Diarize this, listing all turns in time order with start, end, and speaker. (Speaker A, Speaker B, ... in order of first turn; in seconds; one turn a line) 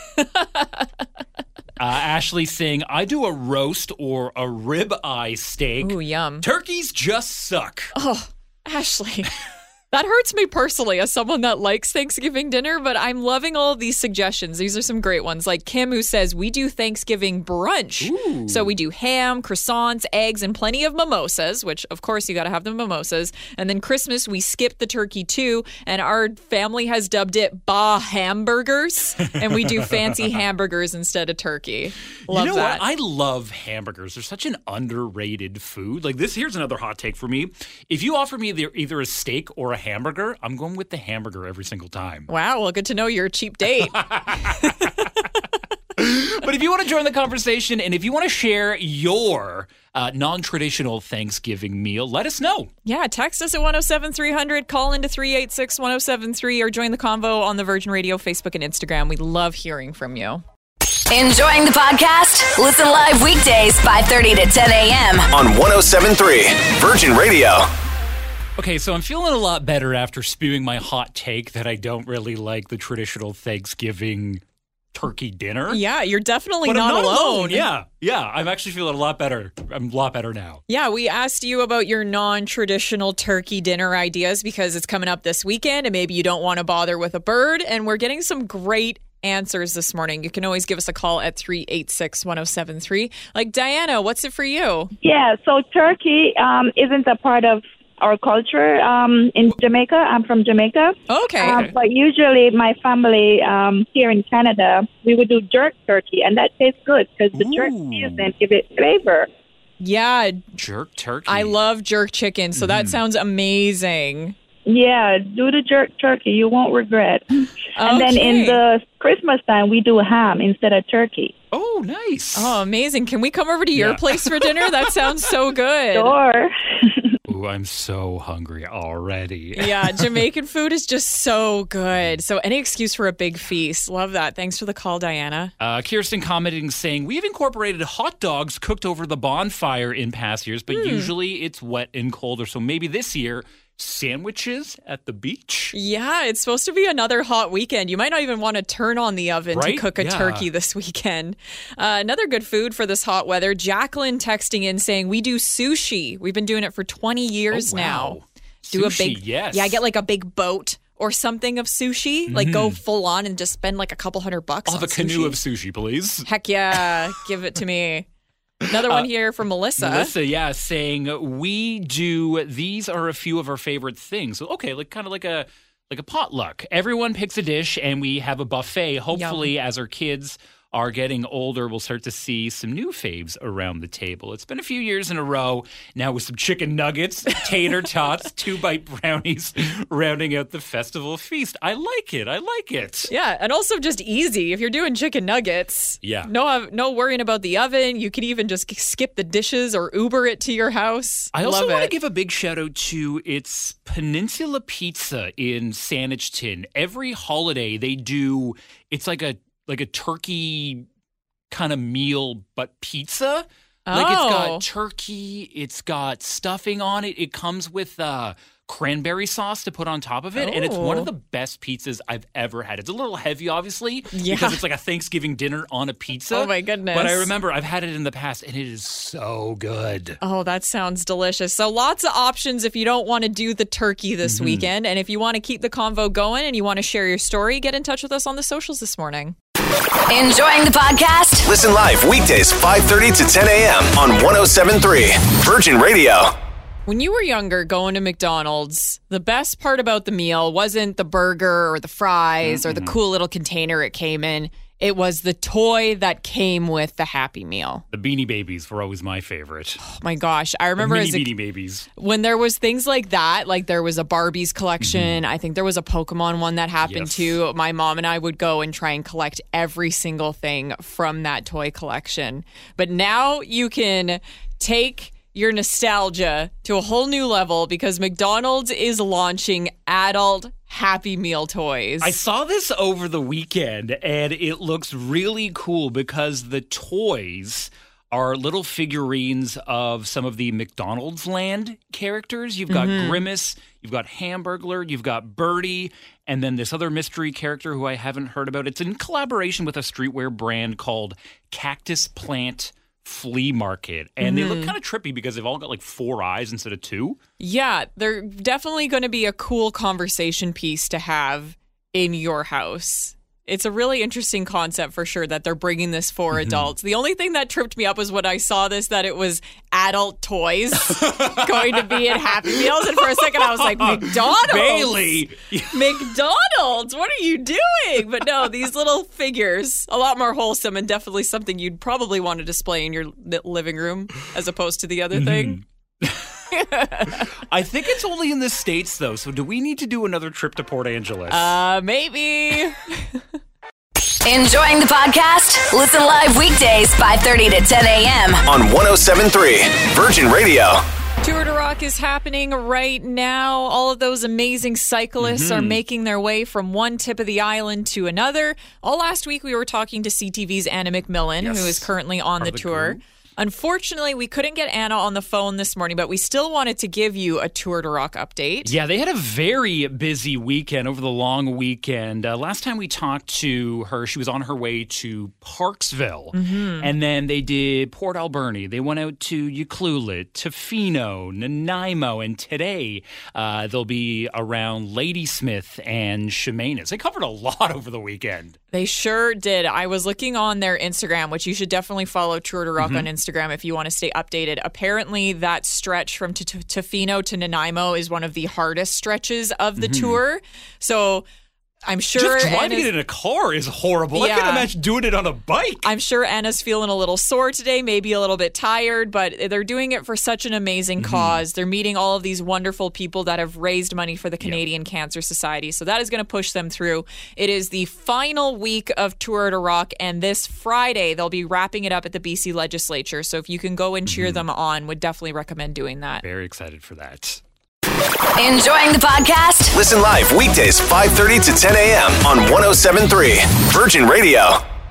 Speaker A: 0.2-0.9
Speaker B: 1.8-7.9
Speaker A: 5.8-6.5
Speaker A: 8.0-9.3
Speaker A: 9.9-32.8
Speaker B: 18.0-18.7
Speaker B: 29.4-30.0
Speaker B: 32.3-42.3
Speaker A: 42.3-45.2
Speaker B: 43.9-45.0
Speaker B: 46.0-52.7
Speaker A: 52.9-60.4
Speaker C: 61.1-65.3
Speaker D: 65.3-67.7
Speaker B: 68.6-74.4
Speaker B: 74.9-75.8
Speaker A: 75.7-77.7
Speaker B: 76.6-80.6
Speaker A: 80.7-94.9
Speaker E: 95.0-109.3
Speaker A: 101.1-101.7
Speaker B: 101.4-101.8
Speaker B: 107.3-108.3
Speaker A: 109.8-110.5
Speaker B: 110.6-111.6
Speaker A: 111.3-114.4
Speaker B: 112.6-113.0
Speaker E: 114.7-121.3
Speaker A: 117.8-118.6
Speaker B: 121.5-122.6
Speaker A: 122.3-126.2
Speaker B: 123.8-124.9
Speaker E: 125.9-127.1
Speaker B: 127.3-130.2
Speaker A: 129.6-135.5
Speaker B: 135.6-145.7
Speaker A: 140.7-141.1
Speaker A: 145.7-158.2
Speaker B: 149.5-150.5
Speaker B: 157.5-159.8
Speaker A: 158.7-165.4
Speaker B: 162.3-162.8
Speaker B: 164.7-166.8
Speaker A: 166.3-168.1
Speaker B: 168.7-169.1
Speaker A: 168.7-170.1
Speaker B: 169.8-193.1
Speaker A: 179.1-179.5
Speaker A: 193.1-201.9
Speaker B: 196.0-196.3
Speaker B: 201.3-210.9
Speaker B: 211.5-230.2
Speaker A: 213.9-214.6
Speaker A: 220.4-221.1
Speaker A: 224.1-224.6
Speaker A: 226.3-227.3
Speaker A: 230.2-239.3
Speaker B: 234.2-234.7
Speaker C: 240.1-241.5
Speaker D: 241.5-246.3
Speaker A: 246.9-257.8
Speaker B: 252.4-253.0
Speaker B: 257.9-259.8
Speaker A: 259.8-261.3
Speaker B: 260.8-261.9
Speaker A: 262.0-282.1
Speaker B: 264.8-265.2
Speaker B: 266.8-267.4
Speaker B: 282.0-307.2
Speaker A: 292.7-293.2
Speaker A: 304.2-304.7
Speaker A: 307.4-325.1
Speaker B: 316.3-316.7
Speaker B: 320.8-326.1
Speaker A: 325.7-335.6
Speaker B: 335.1-336.4
Speaker A: 336.5-337.3
Speaker B: 337.1-341.6
Speaker A: 341.3-343.2
Speaker C: 344.2-348.4
Speaker D: 348.5-350.8
Speaker A: 351.2-368.7
Speaker B: 355.2-355.8
Speaker B: 361.4-363.0
Speaker B: 368.6-388.6
Speaker A: 376.3-376.9
Speaker A: 388.7-401.2
Speaker B: 392.8-393.1
Speaker B: 399.8-400.2
Speaker A: 401.9-402.9
Speaker B: 402.2-405.9
Speaker A: 404.1-404.7
Speaker A: 405.8-426.2
Speaker B: 411.0-411.4
Speaker B: 424.1-424.4
Speaker B: 426.2-427.4
Speaker C: 428.4-429.7
Speaker D: 429.7-434.6